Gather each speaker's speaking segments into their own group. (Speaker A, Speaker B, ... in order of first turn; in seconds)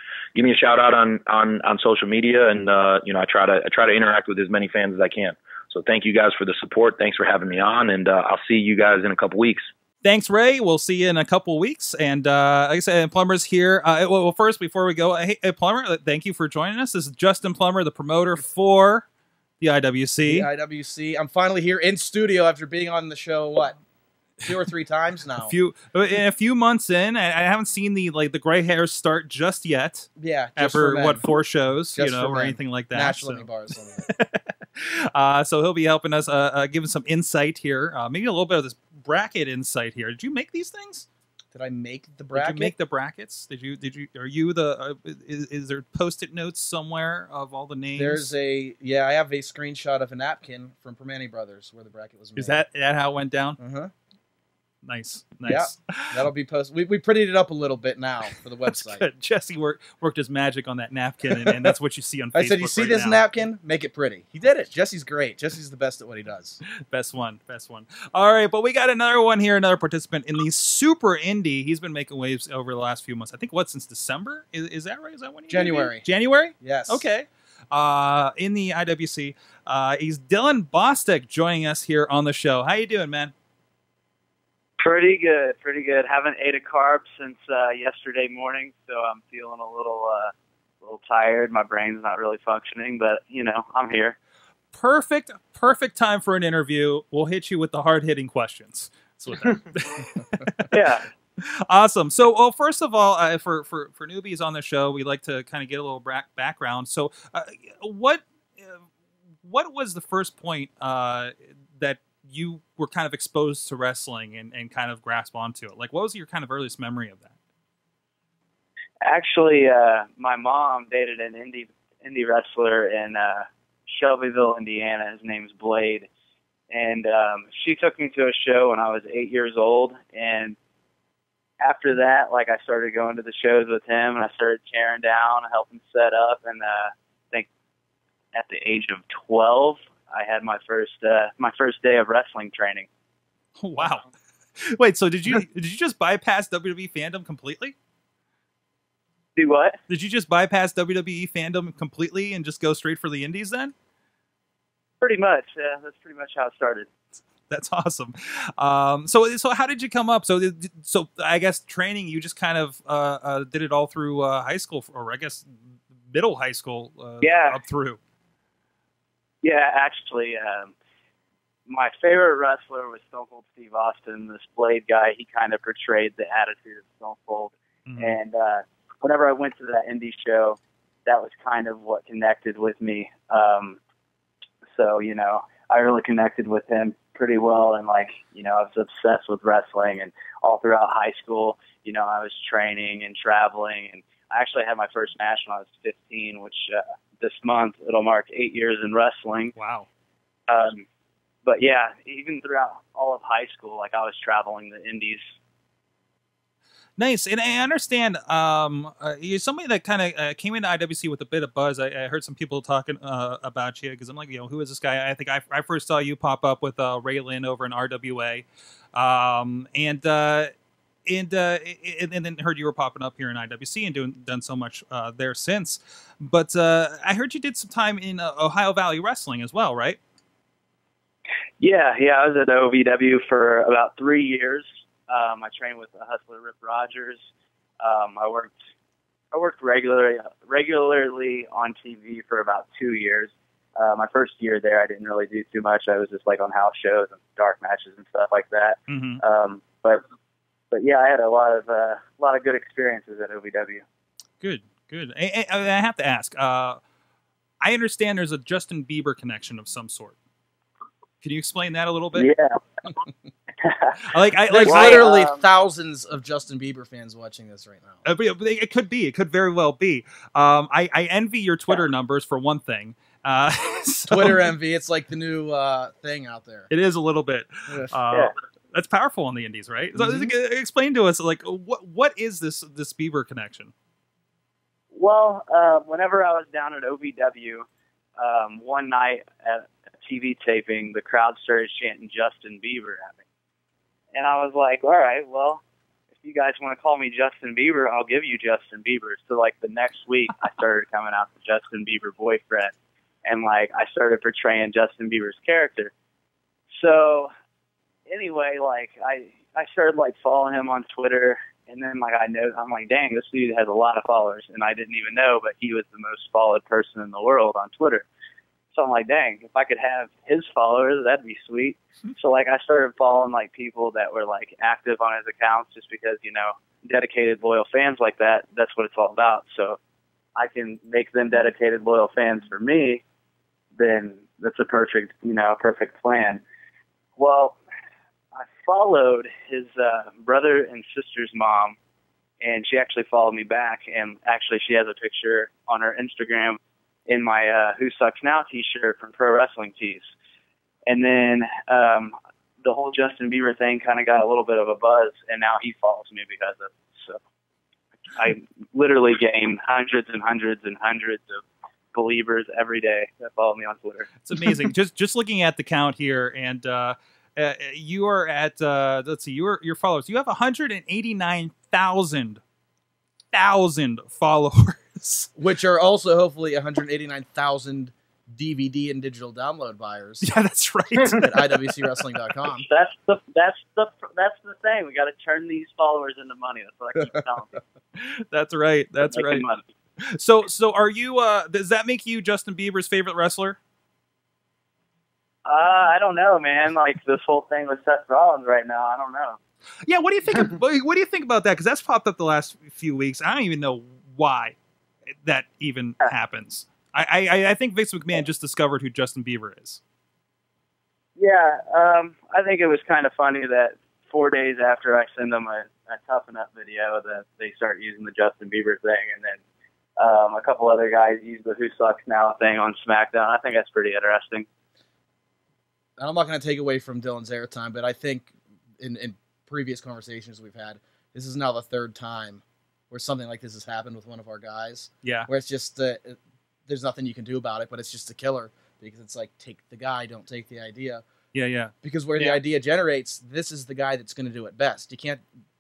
Speaker A: 0.3-9.7
Speaker B: 10.0-19.1, 19.6-20.5, 25.4-33.5, 34.0-41.1, 42.3-48.3, 52.4-53.6, 54.8-56.2, 58.6-63.2, 66.9-83.3, 94.7-100.7, 101.4-108.8, 109.4-117.3, 143.6-144.1, 144.6-147.7, 149.9-153.7, 157.5-168.0, 177.8-178.2, 199.6-199.9, 207.0-220.5, 221.1-230.0, 248.9-249.2, 254.4-256.8, 257.6-260.1, 261.2-262.3, 264.0-265.0, 268.0-274.5, 276.7-283.7, 364.2-372.4, 373.3-375.3, 380.2-381.8, 387.9-389.4, 390.0-393.6, 399.9-404.6, 405.2-409.8, 435.0-435.3, 441.3-441.7
Speaker C: 20.2-23.8, 24.4-25.5, 30.2-31.3, 31.9-34.1, 41.5-42.7, 47.9-52.6, 53.6-53.9, 55.4-59.0, 61.3-61.7, 62.3-66.6, 75.5-76.1, 76.6-77.0, 264.5-268.0, 274.1-276.7, 279.9-280.3, 375.4-380.3, 381.2-382.7, 426.0-441.0, 441.8-445.2
Speaker D: 84.8-94.2, 100.7-101.0, 119.0-126.1, 126.7-130.6, 131.6-137.5, 138.3-142.9, 149.3-149.8, 155.0-156.9, 167.2-167.6, 169.4-170.7, 171.7-183.8, 184.7-199.5, 200.5-200.8, 201.4-205.3, 231.6-237.2, 237.8-238.5, 239.3-250.0, 250.7-253.8, 262.1-262.6, 263.6-264.0, 264.7-265.4, 284.9-287.6, 288.2-293.2, 294.1-295.6, 296.2-302.7, 303.2-305.9, 306.7-307.3, 308.1-318.0, 318.7-329.8, 330.4-333.0, 333.8-336.4, 337.2-337.6, 338.3-341.8, 342.4-350.1, 350.9-357.2, 358.1-361.4, 361.9-364.1, 382.6-387.5, 389.0-389.6, 395.4-399.4, 411.2-419.4, 420.0-424.5